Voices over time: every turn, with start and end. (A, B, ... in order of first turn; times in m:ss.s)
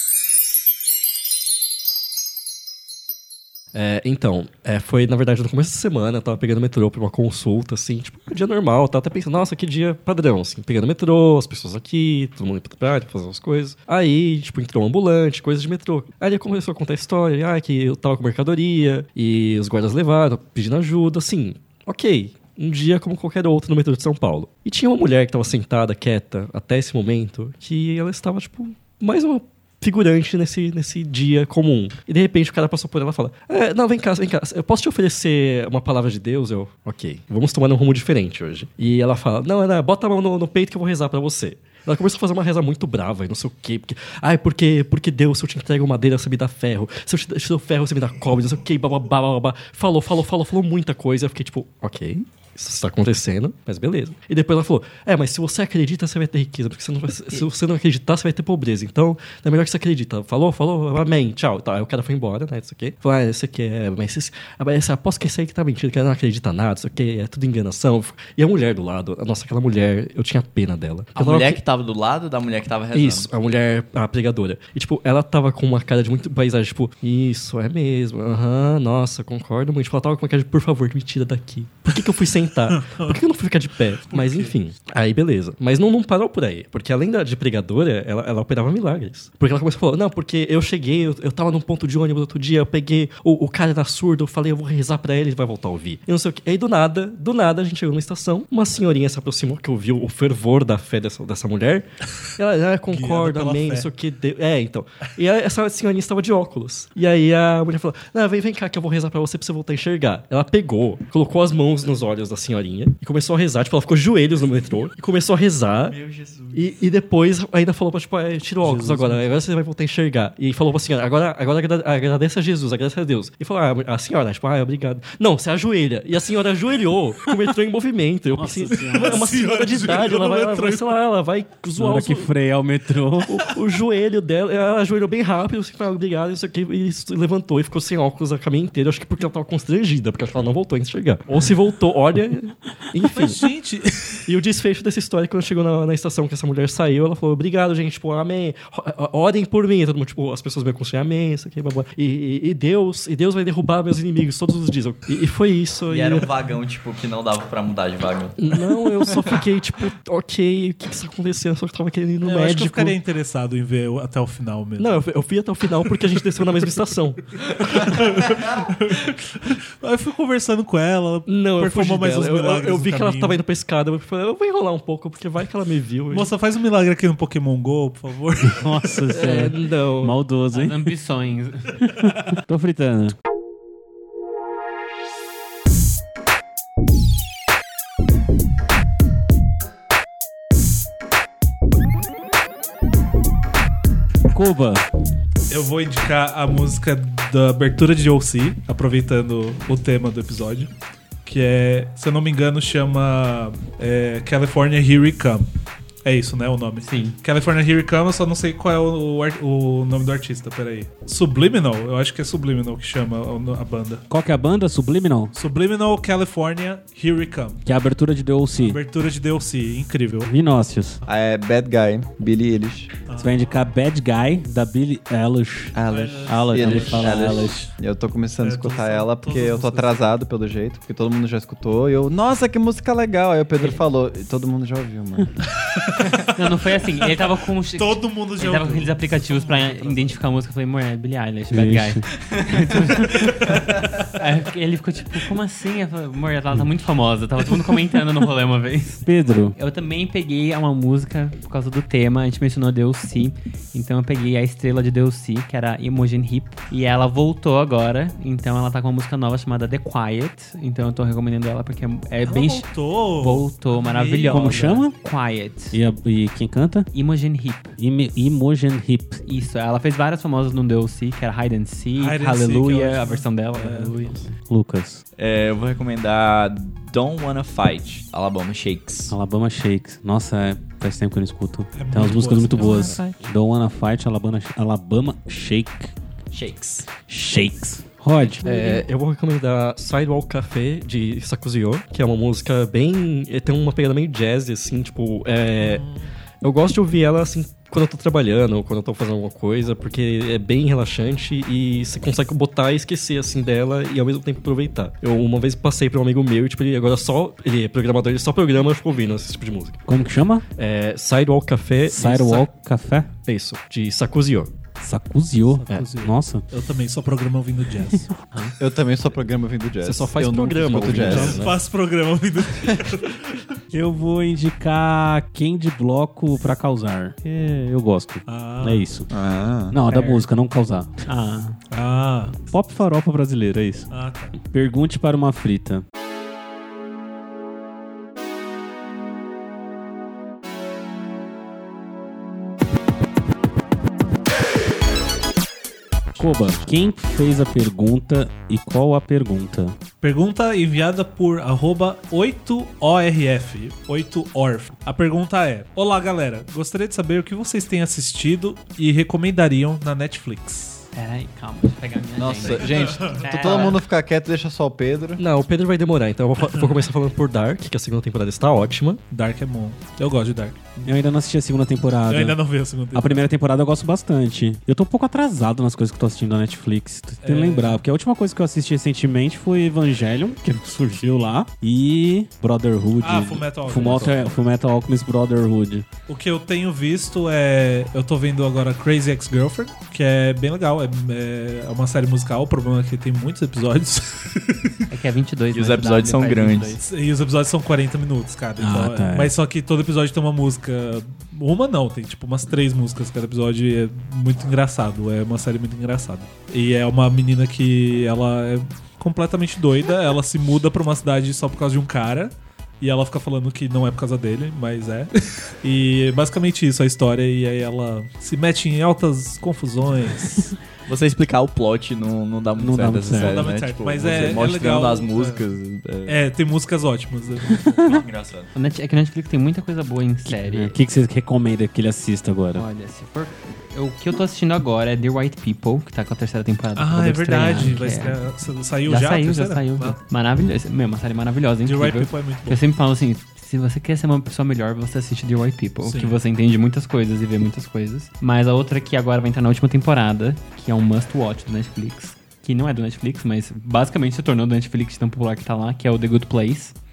0:03.7-1:11.6 A
1:11.1-1:13.3 B
1:12.9-1:41.9 A
1:22.7-1:23.2 C
1:24.1-1:24.5 C
1:42.4-1:56.0 A
1:42.9-1:43.9 C
1:55.8-1:56.7 B
1:56.5-2:12.4 A
1:58.6-1:59.2 D
2:08.4-2:09.2 D
2:08.9-2:11.0 C
2:11.8-2:13.5 D
2:13.3-2:23.4 A
2:23.1-2:24.2 C
2:24.3-2:36.3 A
2:35.9-2:39.4 B
2:38.4-2:42.9 A
2:42.2-2:45.0 C
2:44.8-2:47.2 A
2:46.2-2:46.6 C
2:47.5-2:53.4 C
2:51.3-2:56.3 A
2:56.1-2:58.7 C
2:58.4-3:00.9 D
2:59.1-3:00.2 A
3:00.5-3:01.8 E
3:01.9-3:03.1 D
3:14.3-3:14.8 D
3:15.5-3:20.7 C
3:21.2-3:25.4 C
3:26.0-3:34.0 C
3:26.8-3:27.2 E
3:34.1-3:35.3 D
3:35.3-3:37.6 C
3:37.6-3:38.8 D
3:38.6-3:40.3 C
3:40.2-3:41.0 D
3:41.0-3:42.9 F
3:43.1-3:43.5 C
3:43.2-3:45.7 D
3:45.7-3:55.3 F
3:45.8-3:47.3 C
3:46.2-3:47.7 D
3:48.4-3:50.1 C
3:55.6-4:00.2 C
3:56.0-4:25.8 E
4:01.5-4:02.0 D
4:03.0-4:03.6 C
4:09.0-4:09.6 D
4:22.2-4:24.8 C
4:24.3-4:25.0 D
4:25.7-4:26.9 D
4:26.9-4:27.7 E
4:27.8-4:29.2 D
4:29.2-4:34.2 E
4:32.0-4:34.0 C
4:34.5-4:35.0 D
4:35.2-4:39.2 B
4:39.1-4:45.9 D
4:41.7-4:43.0 C
4:42.7-4:43.0 E
4:46.3-4:46.9 B
4:47.0-4:48.5 D
4:48.4-4:55.8 A
4:55.6-4:56.1 C
4:56.4-5:09.8 A
5:09.9-5:10.4 D
5:10.6-5:12.5 A
5:11.9-5:13.1 D
5:13.2-5:14.5 A
5:14.8-5:16.4 D
5:15.5-5:18.1 C
5:18.6-5:21.4 F
5:19.8-5:21.6 A
5:20.8-5:21.4 D
5:21.1-5:23.4 C
5:23.7-5:29.1 D
5:28.3-5:28.8 C
5:29.1-5:29.8 F
5:29.7-5:30.9 D
5:29.9-5:30.2 E
5:31.0-5:31.6 E
5:31.7-5:32.4 C
5:32.5-5:33.9 D
5:33.9-5:34.4 C
5:34.4-5:35.8 D
5:46.2-5:49.8 D
5:50.0-6:00.8 C
6:00.9-6:03.8 E
6:02.2-6:05.2 F
6:02.6-6:03.6 C
6:05.2-6:09.0 A
6:09.1-6:10.6 C
6:10.8-6:12.4 D
6:12.1-6:13.2 C
6:12.9-6:25.8 D
6:17.2-6:17.8 C
6:23.0-6:24.4 C
6:26.1-6:34.8 C
6:34.9-6:36.8 E
6:35.5-6:36.8 B
6:36.8-7:00.5 C
6:38.6-6:39.3 D
7:00.8-7:06.2 B
7:02.6-7:03.5 D
7:03.1-7:05.4 C
7:06.0-7:07.6 C
7:07.5-7:07.9 D
7:07.7-7:08.5 B
7:08.5-7:10.7 E
7:10.3-7:12.6 D
7:12.5-7:18.2 E
7:16.8-7:20.0 C
7:18.8-7:36.7 E
7:21.6-7:22.6 C
7:25.8-7:26.2 C